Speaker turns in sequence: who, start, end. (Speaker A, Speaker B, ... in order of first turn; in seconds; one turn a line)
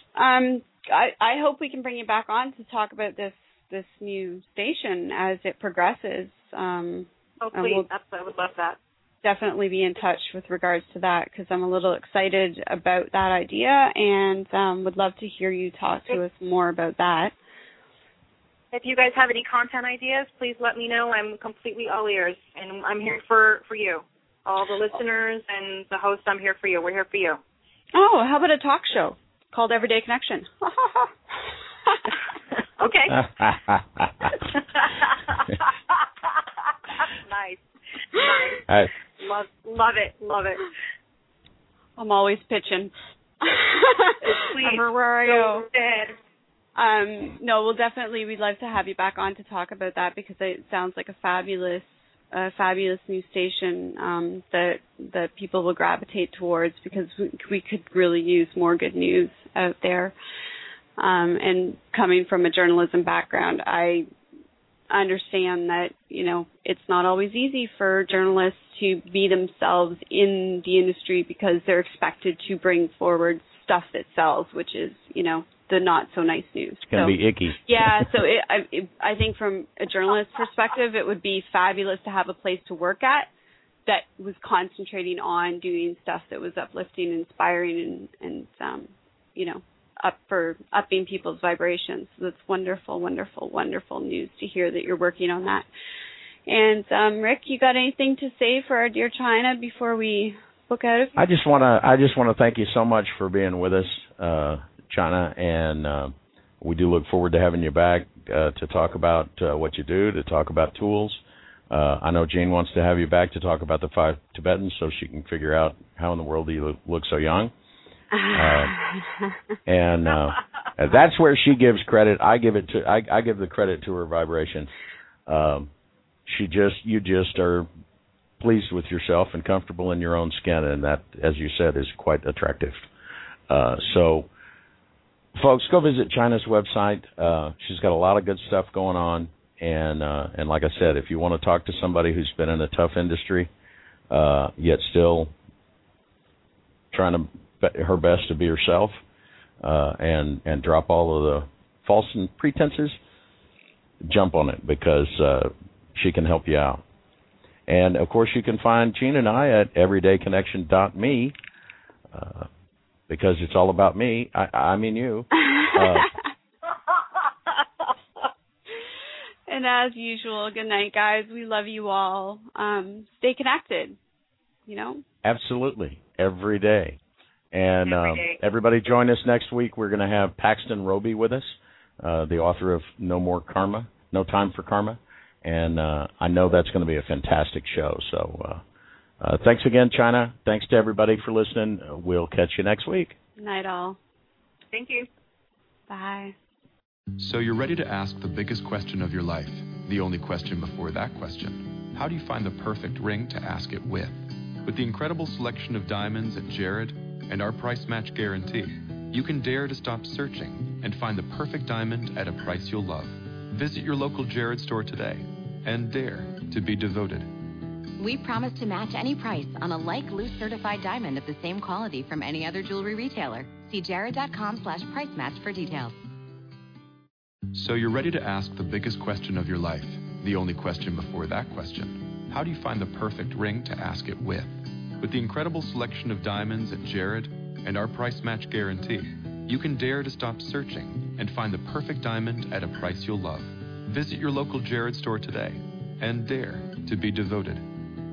Speaker A: 0.1-7.9
Speaker B: 7.4-8.8
Speaker A: 9.2-17.3
Speaker B: 18.7-27.4
Speaker A: 27.9-31.1
Speaker B: 32.8-33.3
Speaker C: 33.3-34.3
Speaker B: 34.5-36.0
Speaker B: 37.0-40.7
Speaker A: 42.0-45.7
Speaker B: 44.2-46.2
Speaker A: 46.8-60.1
Speaker A: 61.0-64.1
Speaker A: 64.9-83.3
Speaker C: 76.9-78.0
Speaker A: 83.9-95.7
Speaker A: 96.5-101.2
Speaker C: 101.2-117.5
Speaker A: 118.1-119.0
Speaker C: 118.3-118.8
Speaker C: 119.7-124.7
Speaker C: 125.3-125.7
Speaker C: 126.3-127.7
Speaker C: 128.4-132.8
Speaker C: 133.5-134.3
Speaker C: 135.3-143.5
Speaker C: 144.1-145.3
Speaker C: 146.9-149.0
Speaker C: 149.6-153.0
Speaker C: 154.0-156.8
Speaker C: 157.7-161.3
Speaker C: 162.1-162.5
Speaker C: 163.1-166.1
Speaker A: 169.5-174.0
Speaker A: 174.7-175.0
Speaker C: 175.2-177.0
Speaker C: 177.5-188.6
Speaker B: 177.9-178.4
Speaker C: 189.2-193.2
Speaker A: 193.4-194.0
Speaker B: 194.7-195.1
Speaker A: 195.9-196.3
Speaker D: 197.2-217.4
Speaker E: 218.0-226.0
Speaker D: 227.5-247.8